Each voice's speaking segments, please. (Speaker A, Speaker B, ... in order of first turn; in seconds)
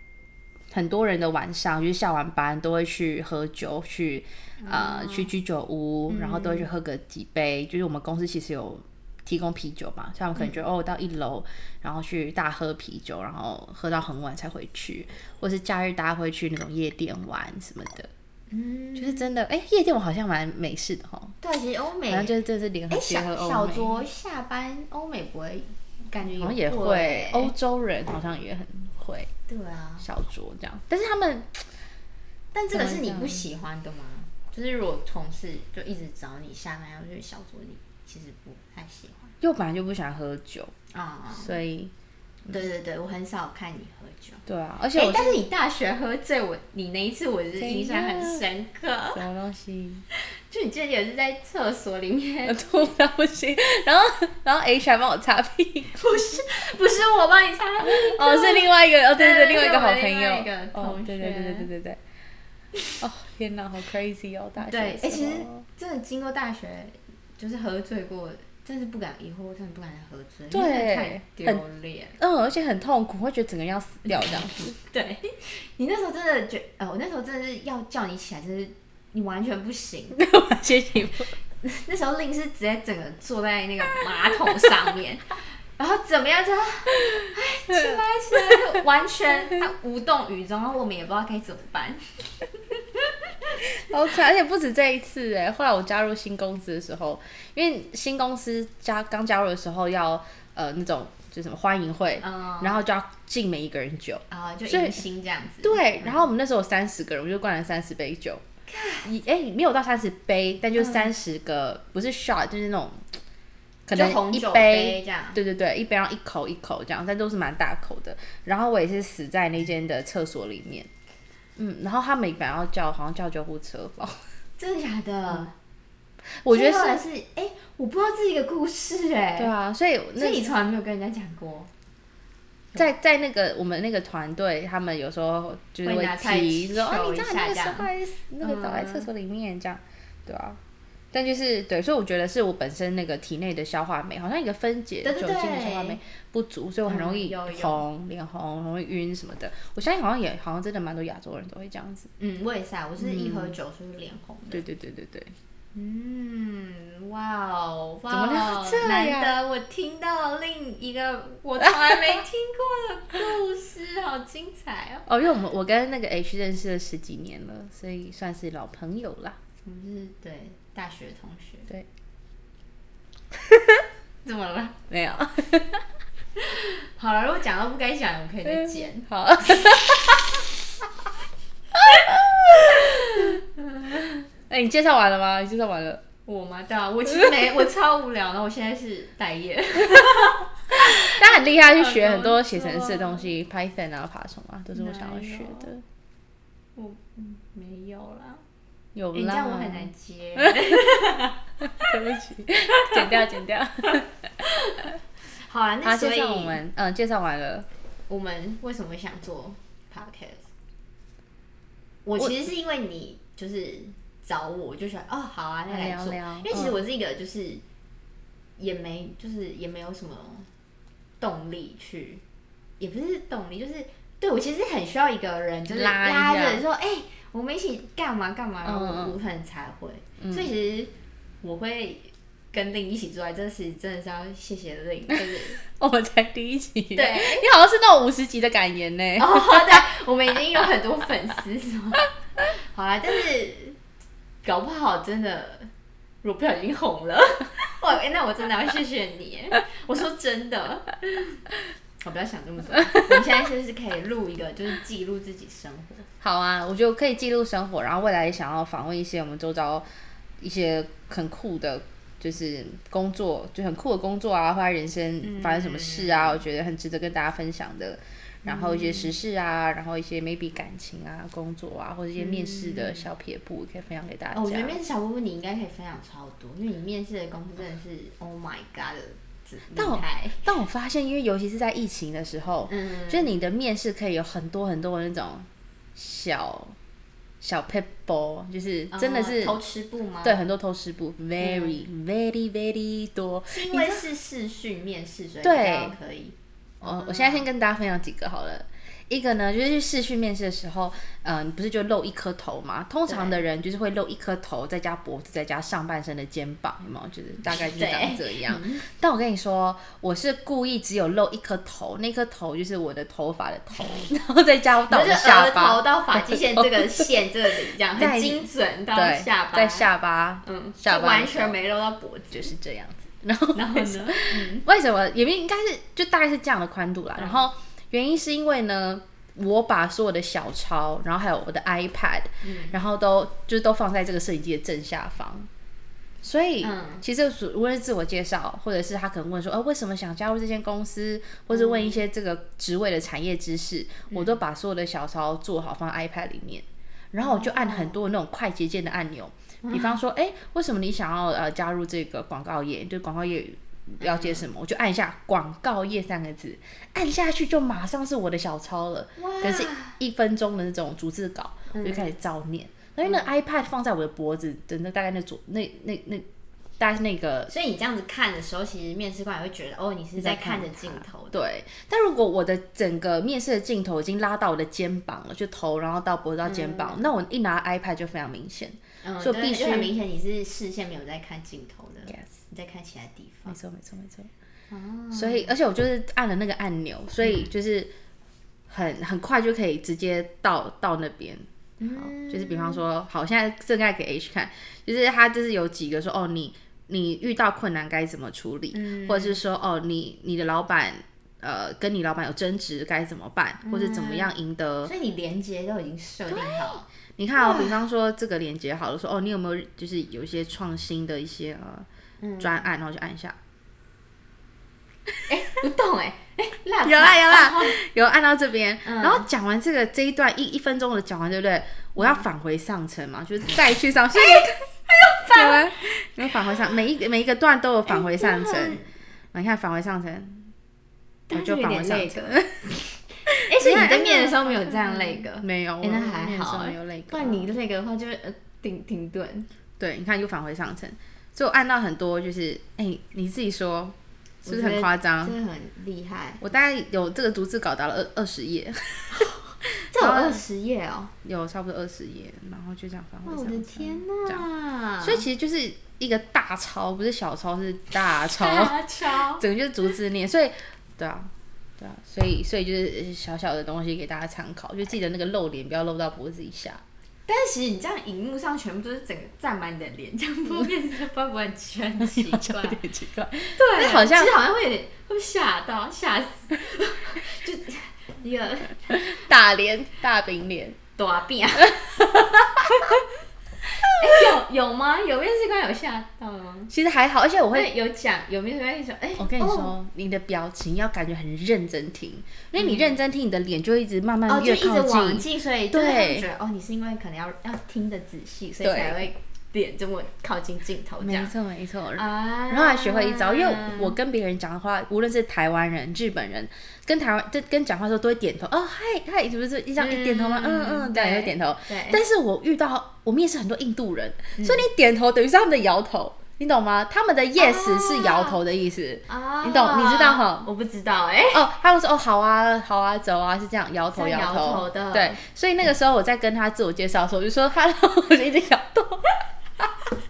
Speaker A: 0.7-18.1, 19.0-21.3, 22.1-24.0, 26.4-29.3, 30.0-31.6, 32.7-33.4, 39.4-40.7, 41.3-41.9, 44.5-45.4, 47.6-48.4, 49.1-50.0, 52.4-55.9, 57.8-62.0, 63.0-65.6, 70.5-71.6, 72.2-74.8, 80.1-81.3, 93.8-105.0, 105.6-108.4, 109.0-113.0, 113.9-120.9, 121.6-124.2, 126.4-127.0, 129.4-130.5, 132.7-140.6, 141.1-152.1, 153.0-153.6, 154.5-155.3, 158.1-159.3, 165.1-169.4, 173.4-173.8, 174.9-175.8, 178.4-180.4, 181.7-183.4, 184.5-186.0, 190.8-195.8, 198.9-200.9, 201.7-204.3, 205.8-207.7, 215.7-216.8, 225.7-226.6, 228.6-229.1, 235.6-239.8, 256.2-259.9, 260.4-274.8, 279.7-286.7, 287.4-289.6, 290.2-294.0, 295.4-295.9, 296.8-317.1, 317.9-321.6, 322.3-335.5, 336.2-366.2, 366.8-367.5, 370.2-379.9, 382.1-382.3, 383.5-384.3, 385.1-387.9, 388.7-404.9, 406.3-411.9, 412.4-413.4, 416.8-424.7, 425.3-428.8, 429.3-430.5, 431.3-437.5, 439.8-445.3, 446.4-450.4, 451.2-454.4, 455.0-466.8, 472.0-474.4, 478.9-480.8, 481.7-483.0, 486.7-487.7, 489.2-496.2, 498.6-499.0, 501.0-520.5, 521.3-529.7
Speaker B: 4.6-5.3, 6.1-6.7, 10.3-10.6, 18.5-19.2, 21.4-22.4, 22.9-27.5, 29.5-30.1, 32.5-39.3, 40.9-41.6, 42.5-49.2, 50.1-52.7, 55.9-61.7, 64.6-72.2, 74.9-80.2, 81.6-93.3, 102.2-102.8, 104.3-106.3, 108.7-109.1, 110.8-111.1, 113.9-115.4, 124.6-125.5, 126.5-129.5, 130.2-131.7, 135.8-137.9, 138.4-139.1, 145.0-146.0, 146.8-147.8, 152.2-154.6, 155.7-165.1, 169.6-171.7, 174.2-174.8, 176.4-179.5, 182.8-184.0, 186.2-193.3, 194.7-195.7, 196.8-198.4, 199.1-201.4, 204.4-206.6, 208.1-210.5, 212.1-217.6, 218.6-220.5, 221.2-222.2, 222.8-235.6, 236.9-237.5, 239.2-243.8, 244.4-245.7, 246.2-251.5, 252.0-256.1, 265.2-266.4, 268.4-269.1, 272.2-273.1, 274.3-280.5, 282.7-283.3, 288.9-290.4, 291.4-291.8, 293.5-297.5, 303.1-303.4, 307.5-308.8, 314.9-319.9, 320.4-322.5, 323.5-324.7, 327.2-327.4, 332.4-332.8, 336.6-337.0, 341.5-342.0, 344.1-344.4, 347.2-348.0, 349.6-350.0, 354.0-354.5, 359.2-360.0, 361.7-362.1, 363.0-363.4, 367.5-371.4, 376.4-377.1, 379.0-383.6, 384.7-385.5, 387.2-387.5, 391.8-392.8, 398.7-399.4, 403.6-404.3, 404.8-407.8, 412.2-412.6, 415.3-417.8, 418.8-419.3, 422.0-422.2, 424.1-426.3, 427.9-428.9, 431.3-432.4, 433.4-439.5, 444.4-446.4, 449.9-451.1, 453.2-455.2, 458.4-459.4, 467.3-472.8, 473.6-478.9, 481.0-481.9, 483.8-486.7, 487.5-489.7, 492.6-493.0, 494.3-501.3, 502.0-503.9, 509.8-512.0, 514.4-514.7, 517.4-518.4, 519.1-521.5, 523.9-525.2